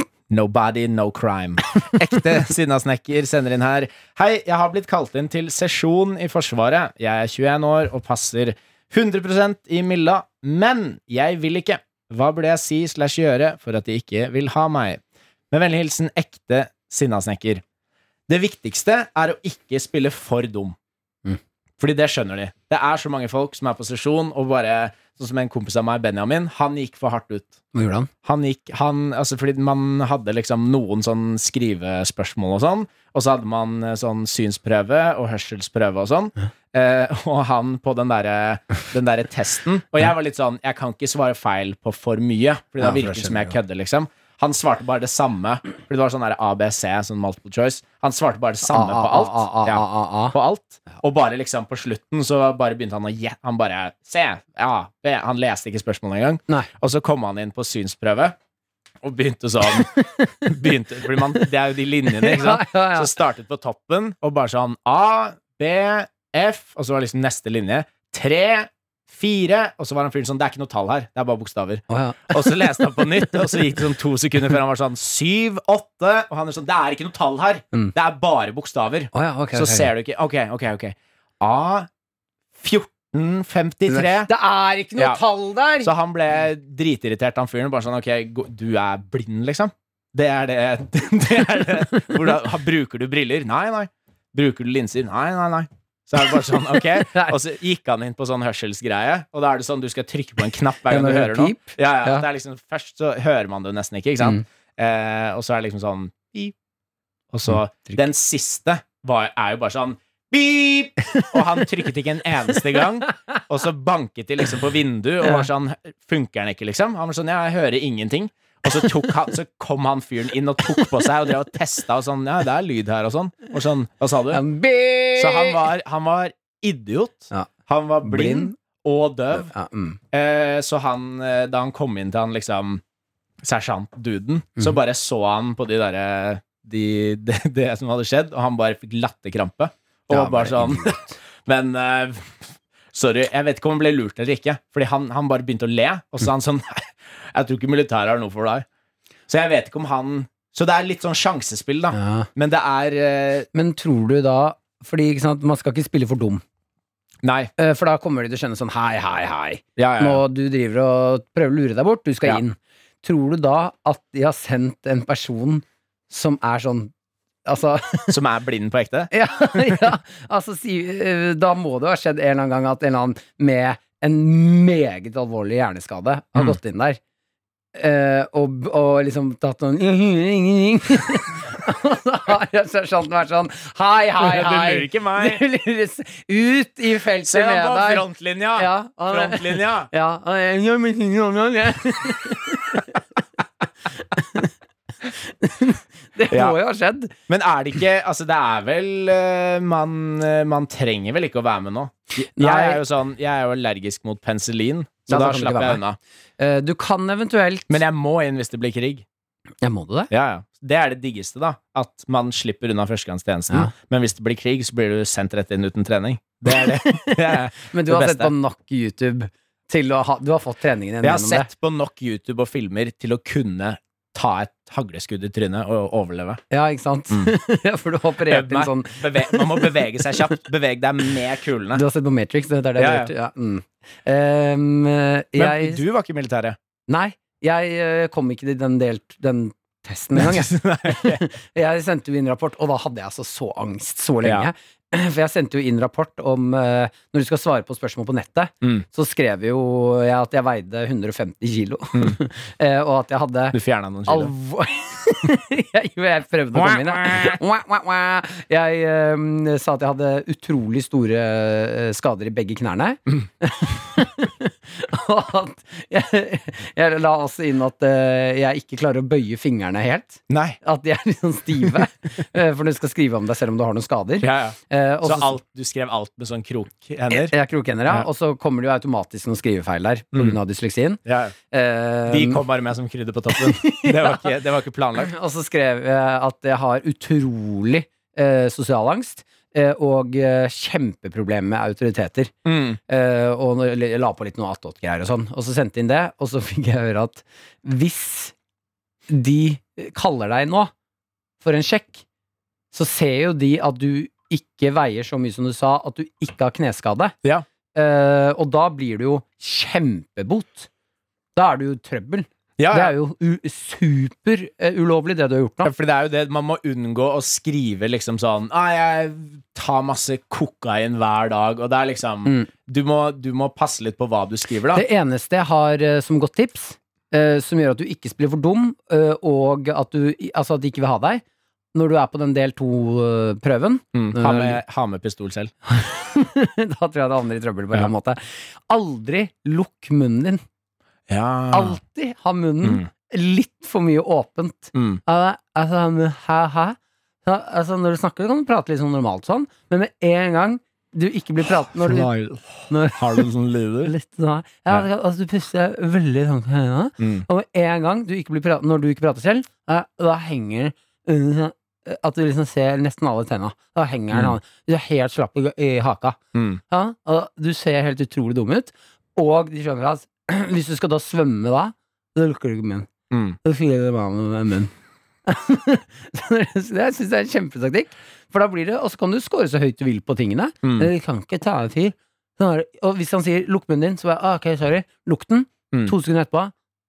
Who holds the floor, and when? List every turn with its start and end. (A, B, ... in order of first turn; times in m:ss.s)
0:00.3-0:17.6 A
0:18.3-0:20.8 A
0:21.8-0:27.6 A
0:27.7-0:28.1 B
0:28.2-0:58.4 A
0:42.8-0:43.6 B
0:48.6-0:50.4 B
0:59.0-1:21.9 A
0:59.8-1:00.5 B
1:02.1-1:03.1 B
1:11.9-1:13.6 B
1:19.1-1:19.9 B
1:22.6-1:24.3 A
1:23.9-1:25.9 B
1:25.8-1:46.5 A
1:37.0-1:37.4 B
1:40.9-1:42.3 B
1:47.3-2:04.4 A
1:47.5-1:48.0 B
2:04.3-2:05.6 B
2:05.2-2:09.5 A
2:08.0-2:08.5 B
2:09.3-2:10.0 B
2:10.1-2:12.8 A
2:13.4-2:28.6 A
2:20.1-2:21.1 B
2:29.3-2:33.5 A
2:31.9-2:32.3 B
2:33.5-2:36.4 B
2:37.2-2:37.5 A
2:37.6-2:46.9 B
2:39.8-2:40.2 A
2:47.5-2:48.2 B
2:48.1-2:49.8 A
2:49.1-2:57.0 B
2:57.8-3:08.0 B
3:04.2-3:05.4 A
3:07.3-3:09.9 A
3:08.6-3:13.0 B
3:13.9-3:14.5 B
3:15.1-3:17.1 B
3:16.3-3:16.6 A
3:17.3-3:26.0 A
3:22.2-3:22.8 B
3:25.1-3:25.8 B
3:26.4-3:27.8 B
3:27.7-3:29.0 A
3:29.6-3:30.1 B
3:30.1-3:38.3 A
3:36.5-3:41.5 B
3:41.0-3:46.4 A
3:46.5-3:49.8 B
3:48.3-3:51.8 A
3:51.8-3:55.8 B
3:52.8-3:53.1 A
3:55.4-3:56.6 A
3:56.9-4:35.4 B
4:00.2-4:01.2 A
4:13.5-4:14.3 A
4:16.6-4:17.4 A
4:30.3-4:30.6 A
4:34.2-4:37.3 A
4:37.1-4:41.0 B
4:41.1-4:41.3 A
4:41.5-4:42.4 B
4:42.1-4:45.1 A
4:43.3-4:44.3 B
4:45.0-4:52.3 B
4:52.4-4:52.8 A
4:52.9-4:58.3 B
4:59.1-5:00.7 B
5:01.4-5:02.0 B
5:02.7-5:07.1 B
5:07.7-5:10.7 B
5:11.4-5:15.7 B
5:12.6-5:12.9 A
5:15.6-5:24.8 A
5:24.8-5:31.2 B
5:31.7-5:34.6 B
5:33.9-5:35.5 A
5:35.7-5:40.4 B
5:41.1-5:41.8 A
5:41.5-5:52.1 B
5:44.7-5:45.0 A
5:51.6-5:53.9 A
5:52.7-5:53.3 B
5:53.8-6:06.2 B
5:57.0-5:57.3 A
6:06.4-6:06.6 A
6:06.7-6:12.9 B
6:13.1-6:13.4 A
6:13.4-6:14.7 B
6:15.3-6:26.5 B
6:20.6-6:20.9 A